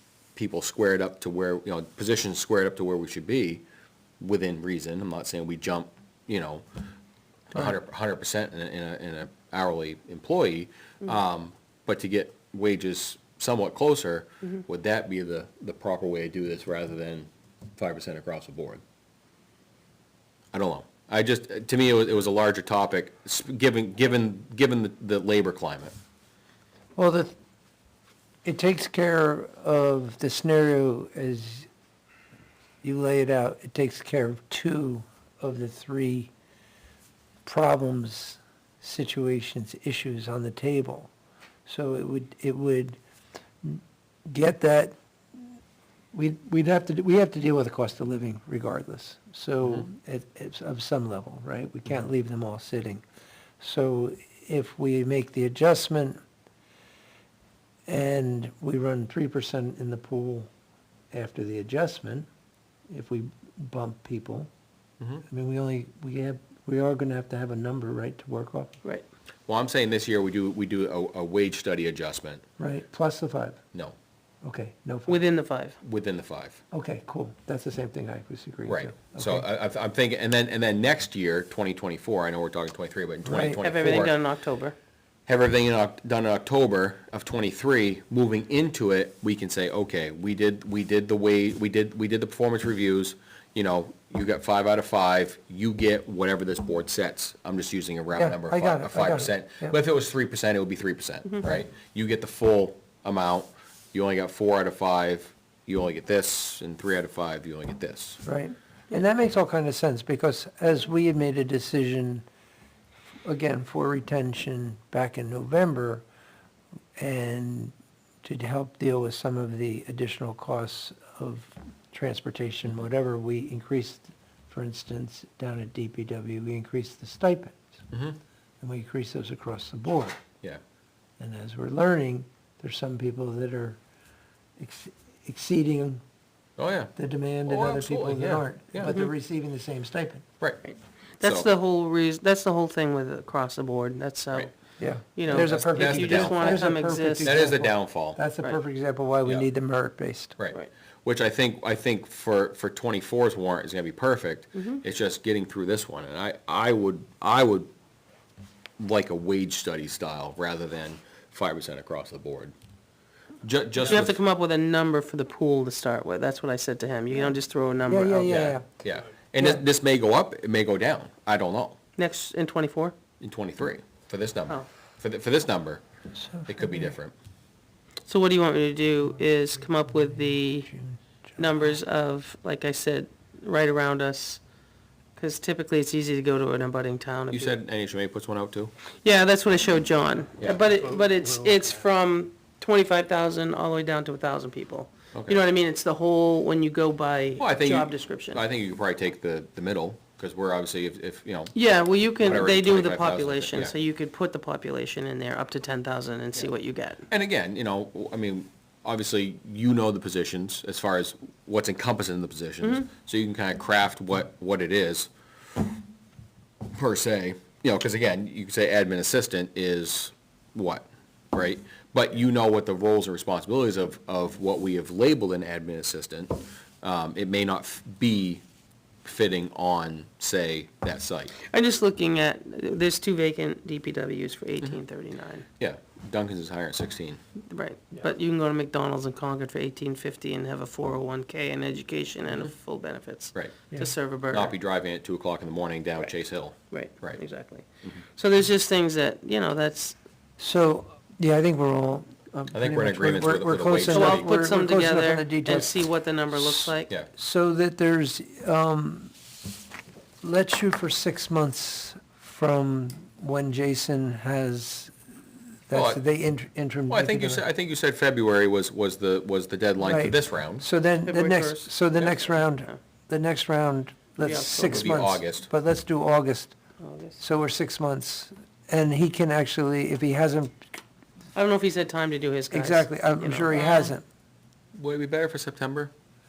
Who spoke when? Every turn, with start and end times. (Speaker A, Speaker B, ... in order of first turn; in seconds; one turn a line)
Speaker A: 0.3-3.6
Speaker A: 4.2-6.6
Speaker A: 7.5-18.8
Speaker A: 20.5-25.9
Speaker B: 26.9-27.3
Speaker B: 28.4-31.7
Speaker B: 32.8-36.3
Speaker B: 37.4-41.1
Speaker B: 41.6-43.0
Speaker B: 43.6-44.9
Speaker B: 46.1-53.0
Speaker B: 53.6-56.2
Speaker B: 57.9-60.5
Speaker B: 61.1-62.3
Speaker B: 62.9-64.5
Speaker B: 65.3-68.7
Speaker A: 69.5-72.4
Speaker B: 72.6-73.6
Speaker B: 74.4-75.2
Speaker C: 75.1-75.7
Speaker A: 75.8-76.6
Speaker B: 76.7-79.4
Speaker A: 78.7-84.2
Speaker B: 83.2-83.8
Speaker C: 83.6-84.7
Speaker A: 85.3-108.2
Speaker B: 98.2-99.8
Speaker B: 108.2-112.2
Speaker B: 113.2-116.0
Speaker B: 117.0-127.8
Speaker A: 127.9-128.2
Speaker B: 128.6-130.2
Speaker B: 131.2-133.8
Speaker B: 134.6-136.0
Speaker A: 136.6-136.9
Speaker B: 136.9-140.2
Speaker A: 137.4-139.0
Speaker C: 138.8-139.1
Speaker C: 140.6-144.5
Speaker A: 141.2-141.5
Speaker B: 144.8-150.3
Speaker C: 145.2-147.4
Speaker A: 145.3-148.2
Speaker A: 150.4-157.7
Speaker A: 158.8-162.5
Speaker A: 163.4-164.2
Speaker C: 163.9-168.3
Speaker B: 167.9-168.6
Speaker A: 168.2-171.8
Speaker C: 172.0-172.9
Speaker A: 173.2-175.8
Speaker B: 176.2-176.9
Speaker A: 176.5-177.1
Speaker C: 178.1-180.7
Speaker B: 179.9-181.7
Speaker C: 181.4-184.4
Speaker C: 185.2-187.6
Speaker A: 187.3-188.7
Speaker C: 189.0-198.4
Speaker A: 195.1-195.4
Speaker A: 197.4-201.5
Speaker C: 201.5-207.1
Speaker A: 202.2-203.7
Speaker A: 207.1-215.6
Speaker A: 216.7-228.4
Speaker A: 229.0-231.3
Speaker C: 231.5-235.4
Speaker A: 235.6-237.2
Speaker C: 237.5-244.5
Speaker A: 244.3-247.2
Speaker C: 246.7-249.9
Speaker B: 250.4-259.1
Speaker A: 252.5-254.3
Speaker C: 253.9-256.9
Speaker B: 260.2-264.9
Speaker B: 265.7-267.4
Speaker A: 265.7-266.0
Speaker A: 266.9-270.6
Speaker B: 269.8-276.6
Speaker C: 271.0-272.8
Speaker C: 274.2-274.9
Speaker A: 274.7-275.5
Speaker C: 276.8-277.2
Speaker B: 277.2-280.7
Speaker C: 281.3-283.9
Speaker B: 282.5-284.0
Speaker A: 284.7-285.9